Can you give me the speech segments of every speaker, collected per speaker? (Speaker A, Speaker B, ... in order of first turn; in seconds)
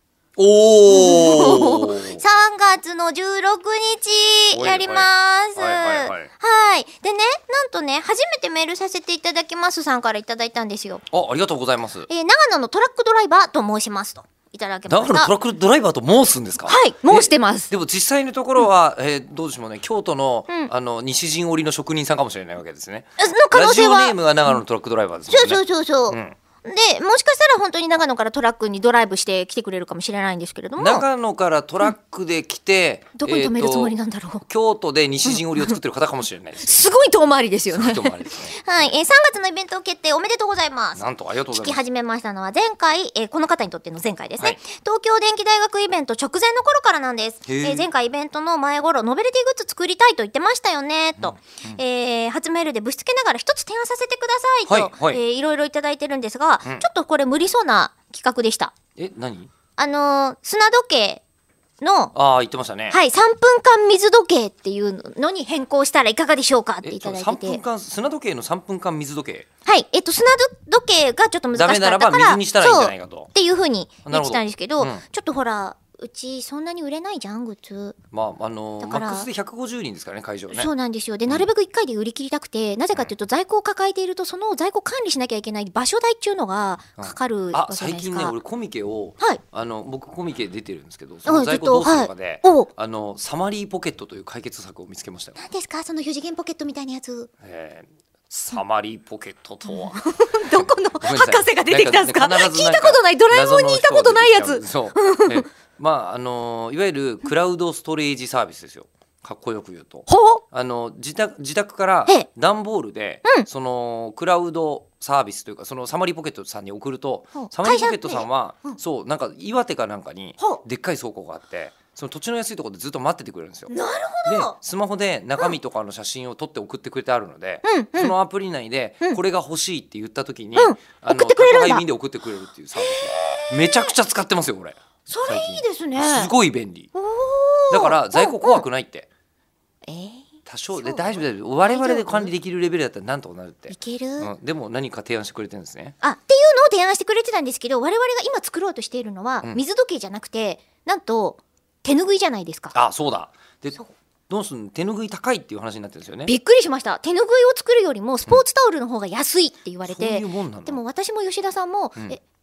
Speaker A: 0.4-2.2, 4.5-6.3, 11.1-12.1, 14.9-26.3, 30.8-36.9, 37.7-39.0, 41.0-41.8, 47.5-47.9, 51.2-51.8, 54.7-55.2, 59.0-59.5, 62.1-63.0, 66.8-69.5, 71.5-73.3, 74.0-75.0, 78.1-80.7, 87.0-95.4, 97.4-123.7, 124.2-136.9, 137.7-139.1, 140.4-145.9, 152.7-156.3, 159.8-160.8
Speaker B: 0.9-11.0, 12.1-15.3, 16.6-17.7, 23.2-24.6, 25.3-31.0, 33.2-34.4, 35.2-35.8, 36.6-58.7, 59.8-61.2, 61.8-62.1, 62.9-67.6, 69.7-78.0, 78.8-79.3, 80.5-88.3, 91.2-92.7, 95.4-97.3, 99.7-105.5, 110.1-110.4, 117.4-118.8, 123.7-124.6, 127.6-128.1, 130.5-131.8, 132.8-133.9, 135.1-136.3, 136.9-138.6, 139.8-142.3, 143.7-144.3, 146.0-152.8, 156.2-162.2